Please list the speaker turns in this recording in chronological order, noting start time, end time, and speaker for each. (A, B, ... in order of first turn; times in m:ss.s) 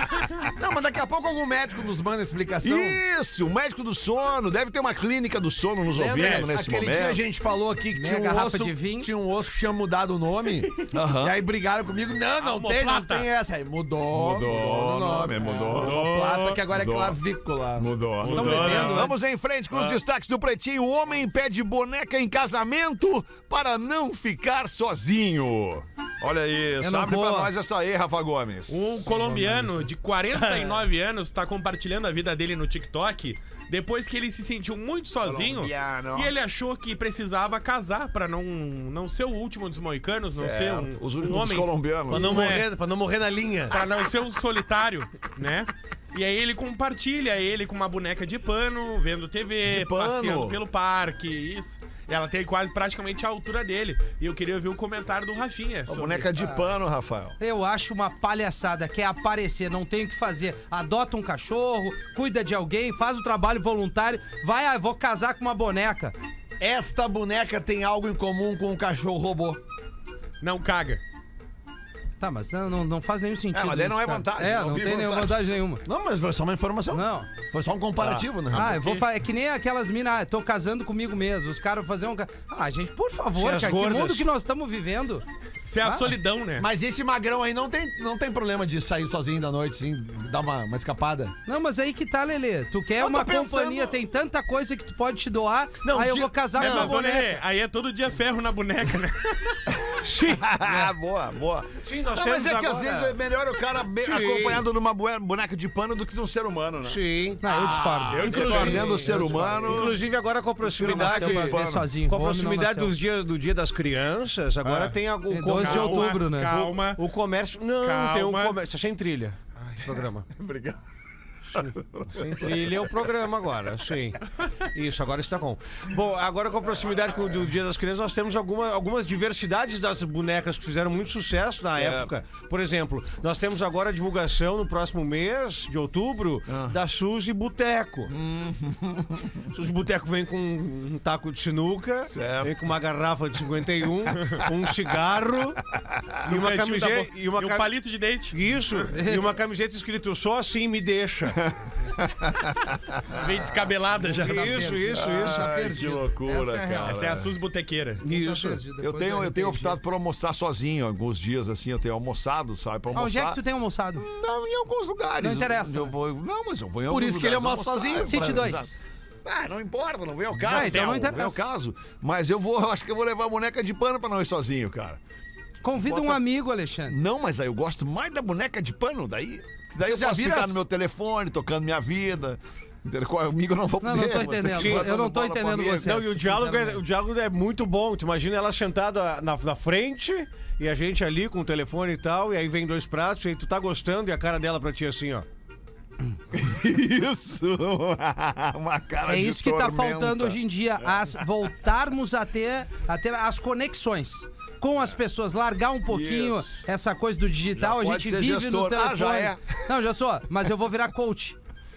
0:00.6-0:03.0 A
0:02.6-0:07.2 B
0:06.0-0:18.7 A
0:06.1-0:06.5 C
0:07.9-0:09.1 D
0:10.9-0:11.4 B
0:12.4-0:13.3 C
0:14.1-0:16.0 B
0:15.4-0:15.7 D
0:15.7-0:16.6 C
0:16.7-0:17.2 B
0:17.8-0:29.2 B
0:18.2-0:19.1 C
0:18.3-0:19.2 D
0:19.7-0:20.0 C
0:26.8-0:27.5 D
0:28.7-0:42.7 C
0:35.2-0:36.3 B
0:40.3-0:42.6 B
0:42.1-0:43.8 E
0:43.7-0:56.3 C
0:49.6-0:50.6 B
0:55.9-0:57.4 B
0:57.4-1:06.2 D
1:06.6-1:09.6 A
1:10.4-1:11.0 C
1:12.2-1:15.8 D
1:13.5-1:15.4 B
1:15.8-1:19.0 A
1:16.9-1:17.3 D
1:18.0-1:18.2 B
1:18.5-1:25.2 D
1:18.7-1:19.0 C
1:23.4-1:24.3 E
1:25.6-1:26.7 C
1:25.8-1:26.1 D
1:26.6-1:31.4 A
1:31.5-1:37.3 D
1:33.0-1:34.0 A
1:35.8-1:37.0 A
1:36.6-1:39.7 C
1:40.0-1:40.5 E
1:40.2-1:47.0 B
1:40.6-1:40.9 D
1:41.8-1:43.1 E
1:44.0-1:44.6 E
1:46.8-2:00.3 E
1:47.4-1:48.3 D
1:48.1-1:49.1 C
1:48.2-1:50.0 B
1:50.6-1:51.9 B
1:50.8-1:53.0 D
1:54.6-1:57.0 C
1:55.3-1:56.6 D
1:57.8-1:58.6 C
2:00.4-2:00.8 B
2:01.6-2:02.9 B
2:01.6-2:18.1 E
2:11.7-2:12.1 B
2:16.5-2:16.8 B
2:18.1-2:19.5 B
2:19.5-2:25.6 E
2:22.1-2:22.6 B
2:25.7-2:26.2 B
2:26.2-2:27.7 E
2:26.2-2:28.5 C
2:28.3-2:31.4 E
2:28.9-2:29.2 D
2:31.4-2:33.2 B
2:33.1-2:34.7 C
2:34.0-2:35.5 E
2:34.1-2:37.0 D
2:35.0-2:37.3 B
2:36.9-2:38.0 C
2:38.0-2:38.6 E
2:38.0-2:39.8 D
2:38.8-2:43.4 B
2:42.9-2:44.1 D
2:44.0-2:48.7 B
2:45.2-2:46.0 D
2:46.9-2:48.6 A
2:48.0-2:48.7 D
2:49.2-2:55.0 B
2:50.4-2:51.4 D
2:50.5-2:50.9 C
2:55.6-2:57.0 D
2:55.8-2:56.2 B
2:56.9-3:06.0 B
2:59.8-3:00.6 A
3:03.8-3:06.8 D
3:04.5-3:04.9 E
3:05.8-3:15.2 E
3:16.3-3:21.2 B
3:19.0-3:31.4 D
3:25.9-3:26.7 B
3:27.6-3:29.6 B